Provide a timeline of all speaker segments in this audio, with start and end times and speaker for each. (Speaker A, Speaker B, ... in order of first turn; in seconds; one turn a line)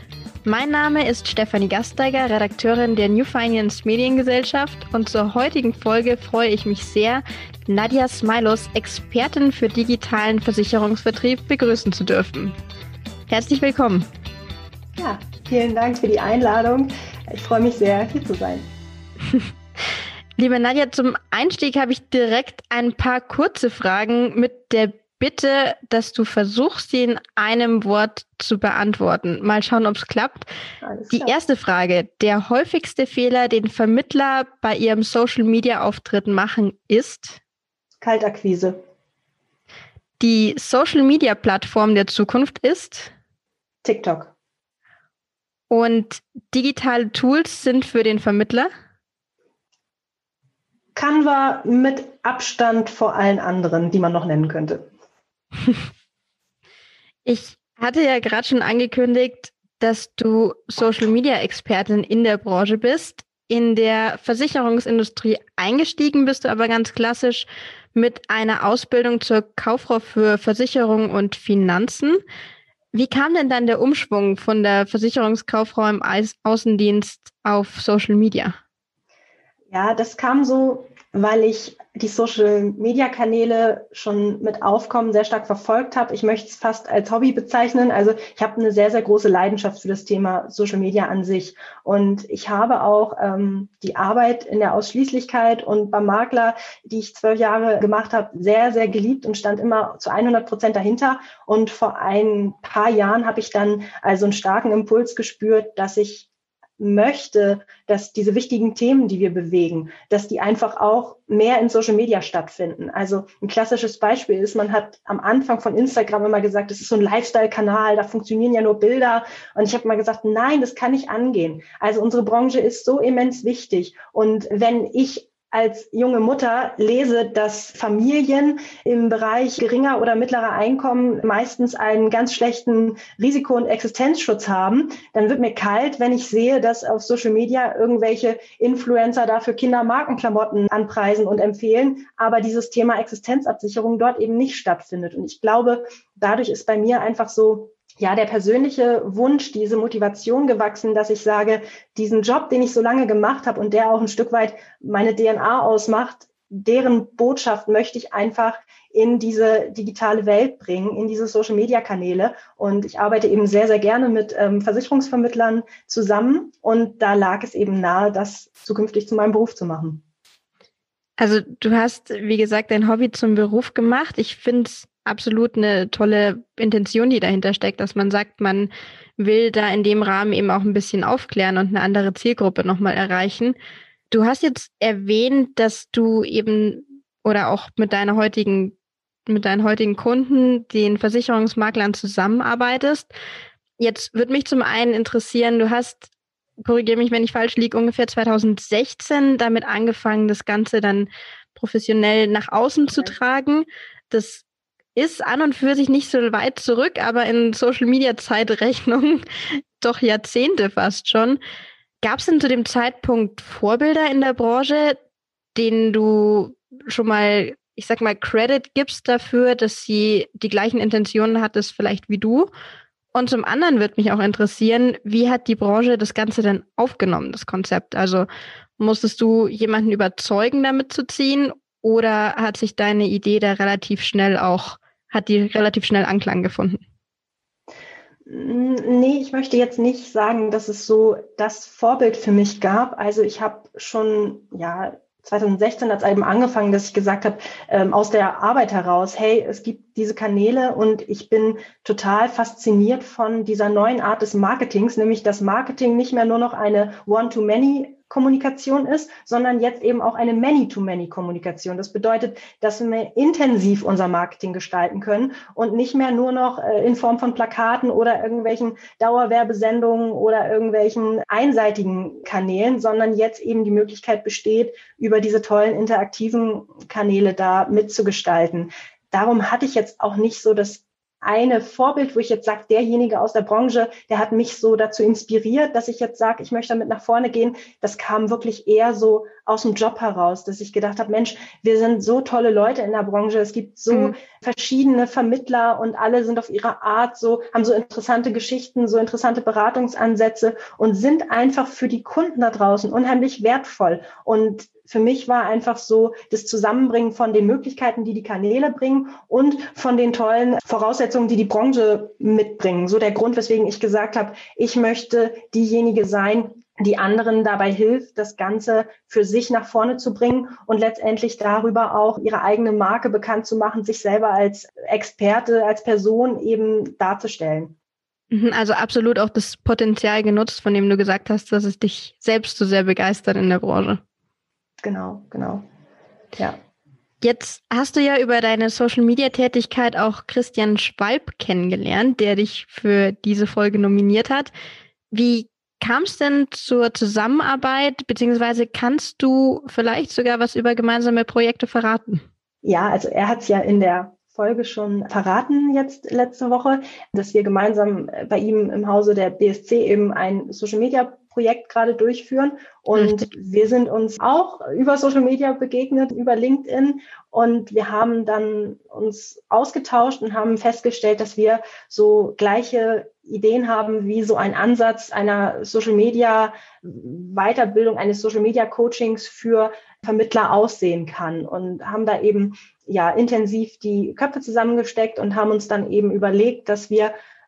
Speaker A: 0.5-12.6
Speaker A: 13.3-14.1
Speaker B: 15.0-18.7
Speaker A: 20.4-30.5
Speaker B: 30.8-31.3
Speaker A: 31.1-37.4
Speaker B: 38.0-38.8
Speaker A: 40.2-43.1
Speaker B: 43.8-44.3
Speaker A: 45.7-48.7
Speaker B: 51.0-54.9
Speaker A: 57.3-72.2
Speaker A: 72.9-78.6
Speaker B: 79.7-106.3
Speaker B: 106.8-170.0
Speaker A: 171.2-183.6
Speaker A: 184.1-188.8
Speaker A: 189.3-193.1
Speaker A: 193.8-204.4
Speaker A: 205.0-209.2
Speaker A: 209.8-211.4
Speaker A: 212.0-215.0
Speaker A: 215.6-222.5
Speaker A: 223.1-228.3
Speaker A: 228.8-236.8
Speaker B: 238.3-327.8
Speaker A: 328.3-334.0
Speaker B: 334.8-335.6
Speaker A: 337.2-344.5
Speaker A: 345.1-352.2
Speaker B: 352.6-387.1
Speaker A: 363.0-363.3